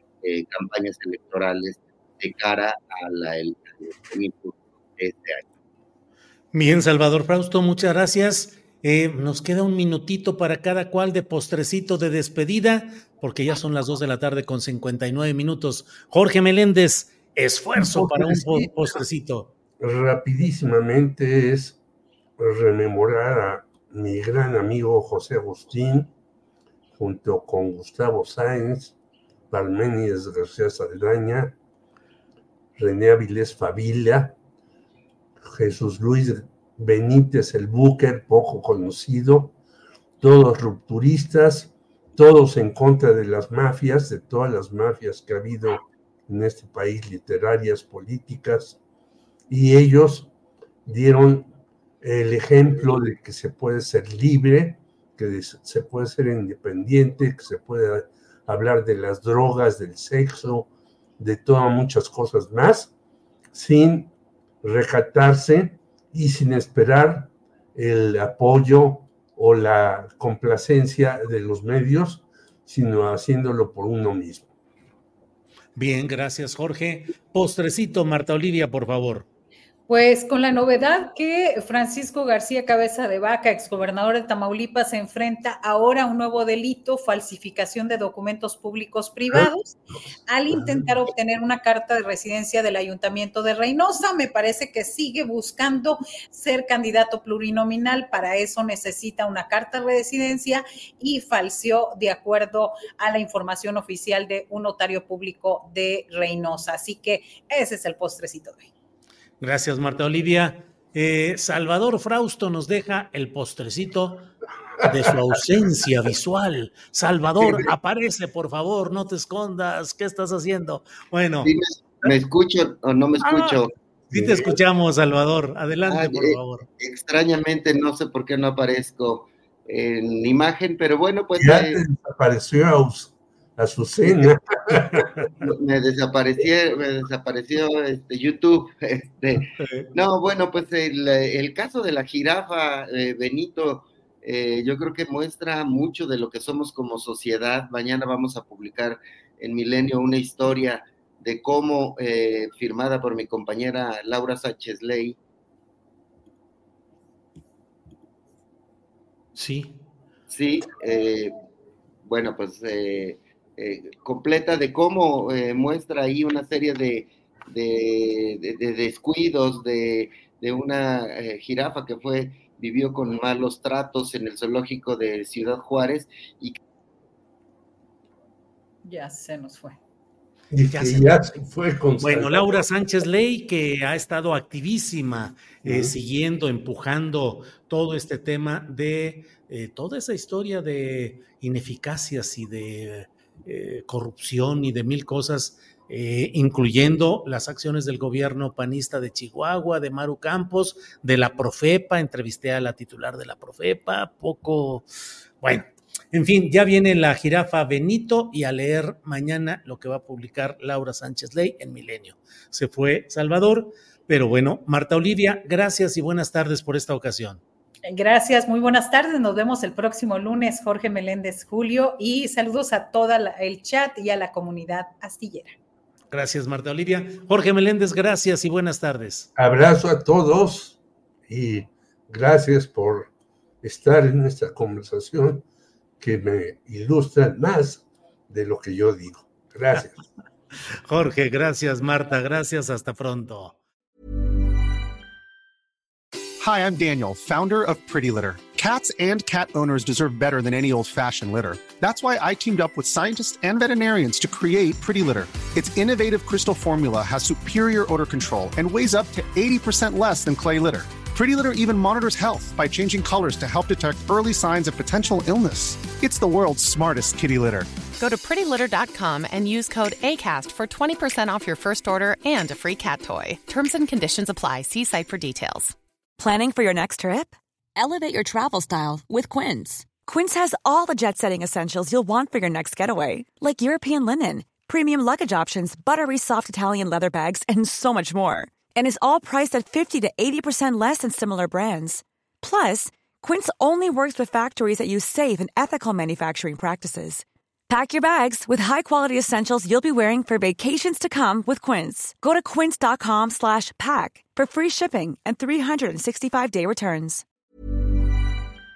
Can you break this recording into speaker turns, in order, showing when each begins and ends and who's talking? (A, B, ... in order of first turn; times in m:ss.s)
0:00.2-0:05.4 A
0:06.5-0:19.5 B
0:17.8-0:19.0 C
0:19.8-0:21.8 C
0:22.4-0:26.1 C
0:27.0-0:29.0 C
0:29.5-0:31.6 C
0:32.8-0:34.4 C
0:35.4-0:39.6 C
0:40.2-0:48.8 C
0:49.5-0:50.3 C
0:50.9-1:02.9 C
1:03.5-1:04.1 C
1:04.6-1:14.5 C
1:15.8-1:19.3 B
1:19.9-1:29.8 D
1:30.3-1:48.7 D
1:49.4-1:54.3 B
1:54.8-2:01.5 B
2:01.4-2:03.7 A
2:03.2-2:03.6 B
2:04.1-2:04.6 C
2:04.1-2:06.7 B
2:05.9-2:11.8 A
2:11.4-2:15.2 C
2:15.4-2:35.2 A
2:19.6-2:19.9 B
2:39.4-2:39.8 B
2:40.3-2:41.3 A
2:42.0-2:56.6 A
2:58.8-2:59.8 D
3:00.5-3:02.6 C
3:00.7-3:01.3 B
3:02.0-3:24.9 B
3:05.6-3:05.9 C
3:25.4-3:37.4 B
3:37.8-3:45.6 D
3:46.1-3:49.3 B
3:49.4-3:53.1 C
3:53.6-3:55.4 C
3:56.0-4:00.0 C
4:00.9-4:03.6 B
4:06.4-4:27.7 E
4:28.0-4:35.8 F
4:36.2-5:07.2 G